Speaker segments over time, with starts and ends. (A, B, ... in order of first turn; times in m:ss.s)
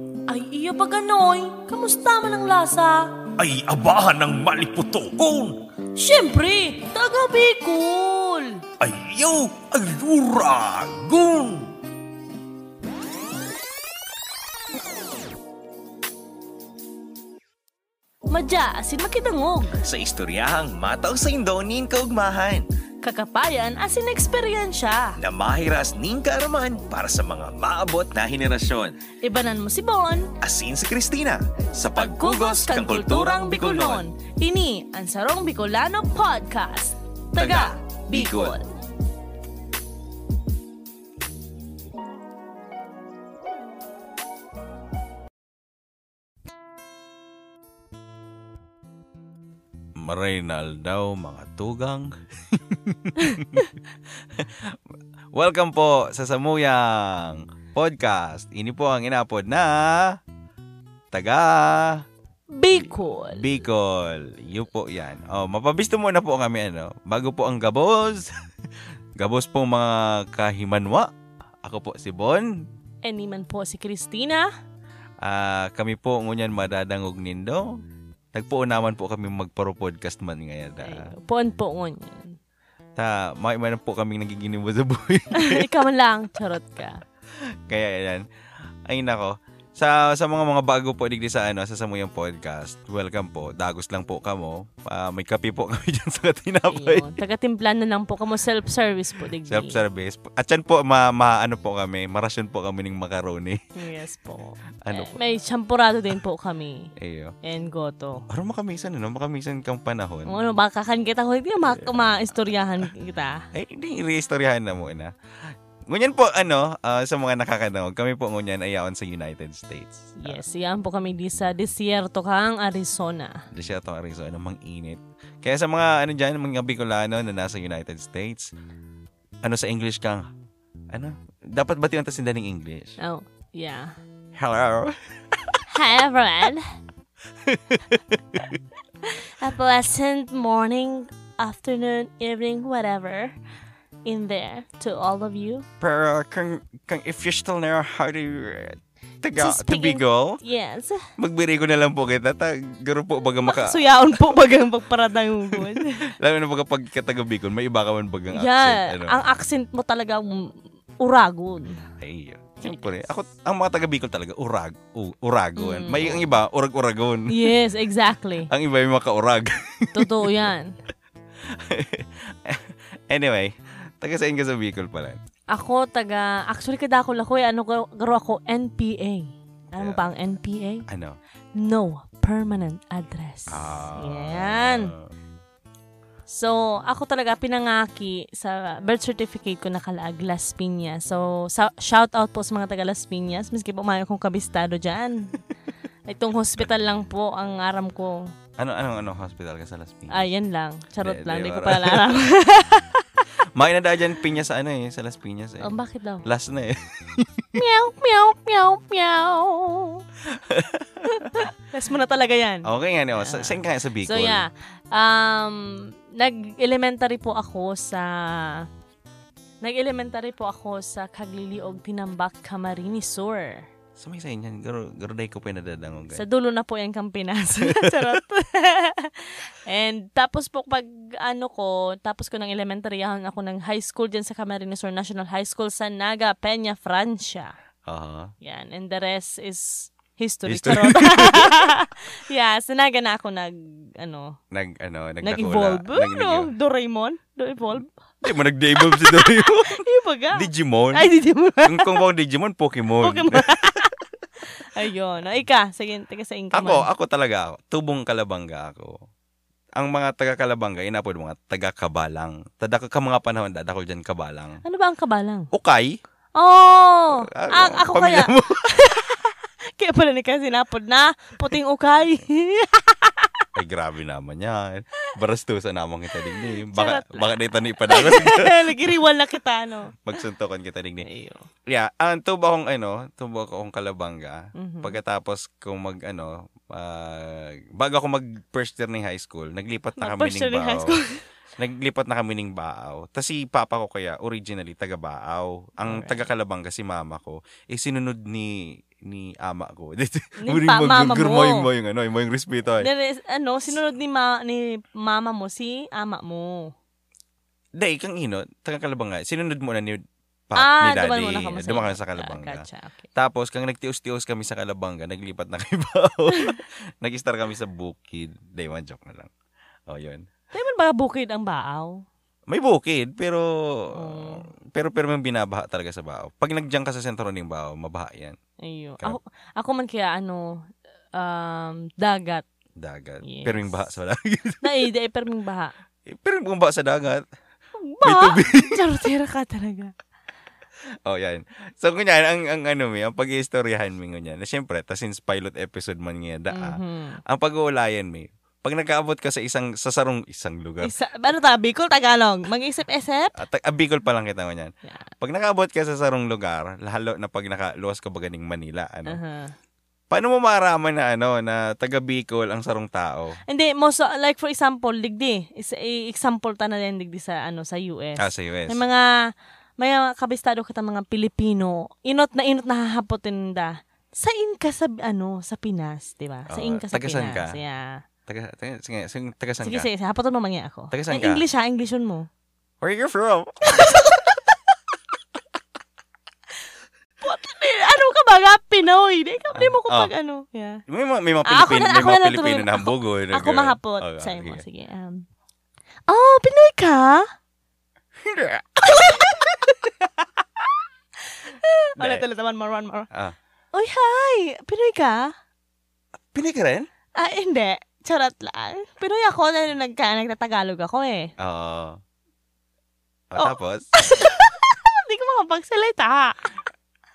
0:00.3-0:03.2 A
0:03.4-0:05.6 B
0:05.9-0:08.6 A
0:08.8-0:11.7 B
0:18.3-0:19.8 A
0:19.8-0:22.6 B
0:23.0-0:25.2 A
0:25.2-0:29.0 B
0:29.2-0:30.3 A
0:30.4-0:33.9 B
0:31.9-0:38.6 A
0:32.7-0:34.0 C
0:37.4-0:37.7 C
0:37.5-0:38.5 B
0:50.0-0:53.7 C
0:54.3-0:54.8 C
0:55.3-1:00.2 C
1:01.1-1:02.0 C
1:02.5-1:03.5 A
1:03.3-1:08.3 C
1:09.2-1:11.1 C
1:11.6-1:12.7 C
1:13.0-1:14.5 A
1:15.2-1:17.8 C
1:18.3-1:21.1 C
1:20.8-1:22.4 A
1:23.0-1:25.7 C
1:25.3-1:27.0 A
1:27.7-1:28.2 C
1:28.9-1:37.1 C
1:36.7-1:39.8 A
1:39.4-1:43.6 C
1:43.7-1:46.9 A
1:44.8-1:45.2 C
1:47.0-1:47.3 C
1:47.4-1:48.2 A
1:48.3-1:50.3 C
1:50.2-1:53.4 A
1:51.6-1:52.3 C
1:53.5-1:55.1 C
1:55.9-2:00.4 C
2:00.2-2:03.4 A
2:03.5-2:08.5 C
2:09.4-2:10.3 C
2:10.9-2:13.0 C
2:13.0-2:13.9 A
2:14.3-2:15.6 C
2:15.7-2:16.7 A
2:17.4-2:18.6 C
2:19.0-2:23.3 A
2:24.0-2:25.6 A
2:25.8-2:30.4 C
2:29.3-2:31.0 A
2:31.2-2:34.3 C
2:33.4-2:36.1 A
2:35.5-2:39.2 C
2:38.3-2:41.8 A
2:42.0-2:47.5 C
2:45.6-2:46.4 A
2:47.3-2:48.5 A
2:48.5-2:50.3 C
2:49.9-2:50.7 A
2:51.5-2:55.2 C
2:55.5-3:00.8 A
2:59.7-3:00.1 C
3:00.9-3:01.2 C
3:01.6-3:04.9 A
3:03.5-3:05.1 C
3:06.3-3:15.3 A
3:16.1-3:18.3 A
3:18.6-3:20.3 C
3:20.1-3:23.0 A
3:21.0-3:22.2 C
3:23.5-3:25.7 C
3:25.6-3:26.3 A
3:26.2-3:27.5 C
3:27.5-3:30.0 A
3:30.3-3:31.5 C
3:31.1-3:38.7 A
3:32.6-3:34.4 C
3:39.6-3:43.6 A
3:44.0-3:46.2 C
3:46.1-3:57.5 A
3:47.7-3:48.1 C
3:57.9-3:58.3 C
3:58.4-4:04.4 A
4:00.5-4:01.6 C
4:04.5-4:06.5 C
4:05.2-4:07.9 A
4:08.2-4:09.8 C
4:08.7-4:12.0 A
4:10.3-4:11.0 C
4:11.6-4:13.8 C
4:13.0-4:13.9 A
4:14.6-4:16.9 A
4:16.5-4:19.0 C
4:19.8-4:24.6 C
4:24.6-4:25.5 A
4:25.5-4:26.0 C
4:26.3-4:33.4 A
4:27.1-4:28.9 C
4:33.6-4:38.8 C
4:36.1-4:40.0 A
4:40.0-4:41.1 C
4:41.0-4:41.5 A
4:41.7-4:51.0 C
4:44.5-4:45.0 A
4:50.0-4:51.2 A
4:51.6-5:02.9 C
4:55.8-4:56.2 A
5:00.4-5:01.7 A
5:02.8-5:06.7 A
5:07.8-5:19.3 C
5:10.5-5:13.0 A
5:19.9-5:20.2 C
5:20.5-5:22.0 A
5:22.5-5:28.4 C
5:23.9-5:24.4 A
5:28.6-5:32.4 A
5:32.8-5:34.8 C
5:33.2-5:33.8 A
5:34.6-5:35.7 A
5:36.1-5:37.2 C
5:37.8-5:39.9 A
5:38.0-5:38.8 C
5:41.0-5:50.9 C
5:46.5-5:47.2 A
5:50.8-5:53.4 A
5:53.3-5:59.2 C
5:59.0-5:59.5 A
6:00.1-6:03.4 C
6:03.4-6:18.0 A
6:08.2-6:08.8 C
6:16.5-6:17.6 C
6:18.3-6:19.9 C
6:19.6-6:22.3 A
6:20.9-6:21.4 C
6:22.8-6:24.0 C
6:27.2-6:30.8 A
6:29.5-6:30.1 C
6:30.9-6:34.6 C
6:31.4-6:35.2 A
6:36.1-6:37.2 A
6:38.2-6:39.7 C
6:38.8-6:40.1 A
6:41.4-6:43.1 A
6:42.0-6:42.2 C
6:43.7-6:45.3 A
6:46.3-6:46.9 C
6:47.2-6:51.3 A
6:51.4-6:52.0 C
6:53.3-6:53.9 C
6:53.4-6:56.6 A